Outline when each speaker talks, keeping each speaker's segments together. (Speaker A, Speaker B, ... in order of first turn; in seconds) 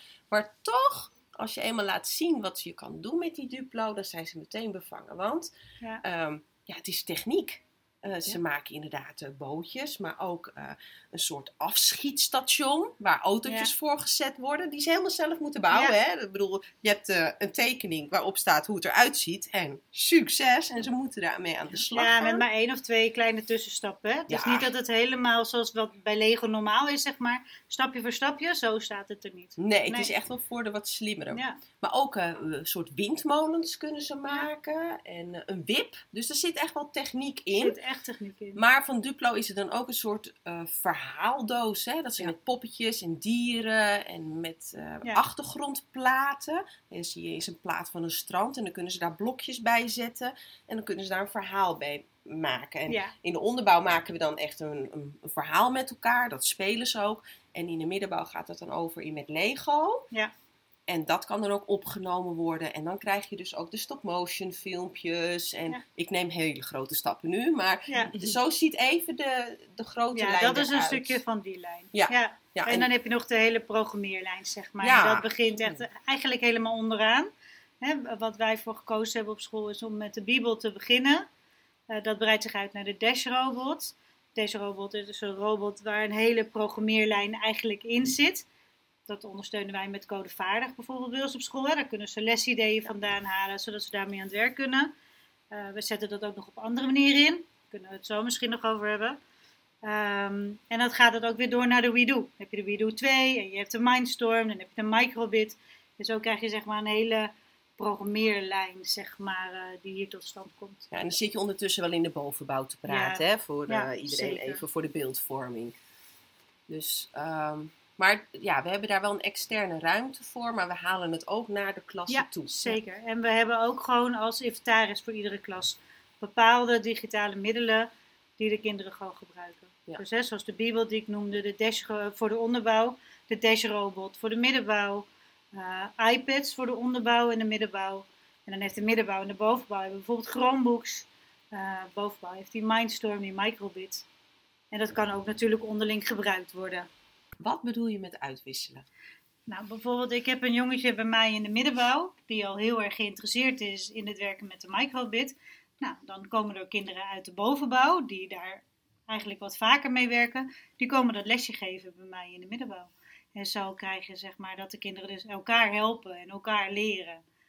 Speaker A: 0.3-5.5, 6.0-22.4, 24.3-24.7, 29.6-37.8, 38.5-60.0, 60.9-71.2, 71.9-72.9, 74.8-75.8, 110.9-115.7, 116.7-122.8, 147.4-148.9
Speaker B: 13.4-13.7, 15.7-15.9, 21.9-30.1, 31.3-31.6, 37.6-38.6, 52.9-53.1, 67.9-68.1, 70.1-77.3, 77.8-81.3, 81.9-88.5, 89.1-94.9, 95.5-99.2, 99.8-110.9, 112.8-114.6, 122.1-144.1, 144.7-146.9, 149.5-167.2